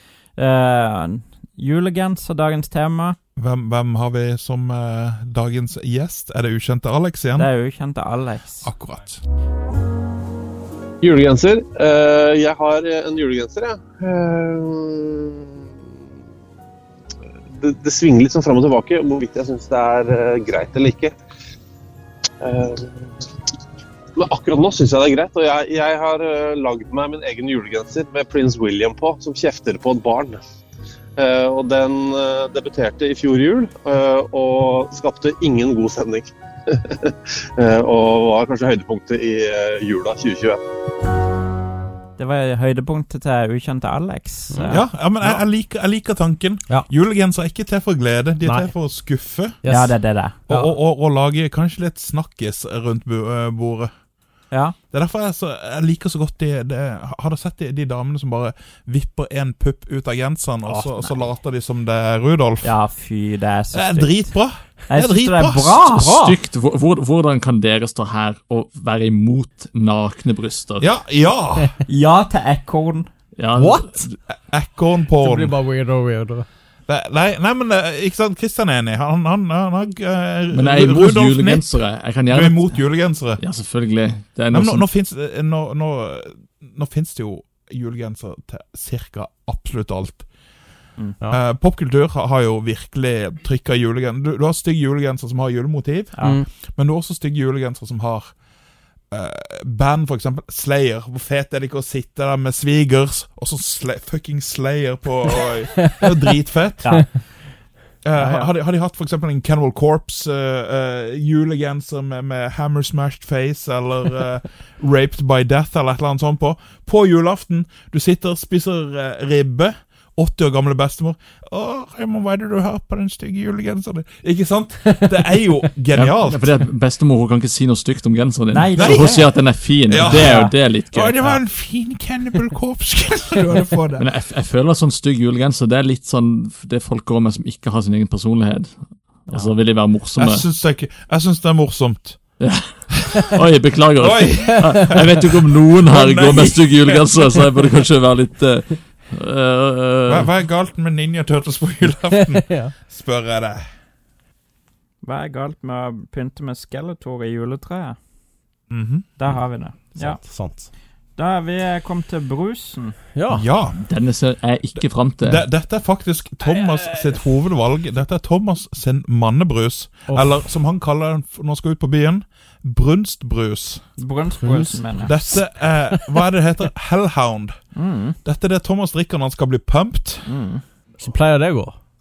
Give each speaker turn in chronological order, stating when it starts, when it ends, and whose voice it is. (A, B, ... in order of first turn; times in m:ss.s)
0:00.4-0:03.2 A
0:03.4-0:07.5 B
0:07.4-0:08.7 A
0:08.6-0:09.2 B
0:11.0-0:15.7 C
0:17.6-0:21.2 C
0:22.4-0:23.3 C
0:24.2-0:30.4 C
0:31.2-0:40.6 C
0:42.2-0:44.8 A
0:44.5-0:45.4 D
0:44.7-0:49.7 B
0:48.4-0:48.7 D
0:49.6-0:50.7 D
0:49.7-0:50.4 A
0:50.5-0:53.9 B
0:54.5-0:54.8 A
0:54.9-1:02.7 B
1:02.6-1:04.3 A
1:03.7-1:05.9 B
1:04.9-1:06.4 A
1:05.9-1:10.9 E
1:10.8-1:11.7 B
1:11.8-1:13.1 A
1:13.4-1:14.0 E
1:13.5-1:14.1 D
1:14.2-1:15.6 B
1:15.1-1:16.4 D
1:16.9-1:21.7 B
1:20.5-1:22.7 E
1:22.3-1:23.4 B
1:23.4-1:24.8 E
1:24.5-1:30.2 B
1:31.3-1:38.3 B
1:39.1-1:47.0 B
1:45.8-1:46.1 D
1:46.8-1:47.2 A
1:48.0-2:06.5 B
1:48.2-1:48.5 A
2:05.9-2:11.4 E
2:08.5-2:09.3 A
2:08.8-2:09.3 B
2:09.9-2:14.0 B
2:10.0-2:10.5 A
2:14.0-2:18.7 E
2:19.2-2:20.4 E
2:20.2-2:22.3 B
2:22.4-2:30.3 E
2:24.0-2:27.1 B
2:24.5-2:25.0 D
2:30.1-2:33.6 B
2:32.0-2:32.7 D
2:35.0-2:38.0 A
2:38.7-2:39.2 B
2:39.2-2:40.2 A
2:39.9-2:40.7 D
2:41.2-2:43.0 A
2:43.1-2:43.4 D
2:43.3-2:43.8 B
2:43.8-2:45.4 E
2:45.2-2:53.9 B
2:50.1-2:50.4 D
2:54.0-2:55.3 A
2:54.4-2:55.3 D
2:55.0-2:57.6 B
2:57.7-2:58.2 A
2:58.2-3:00.3 B
3:00.2-3:00.6 A
3:01.0-3:01.8 D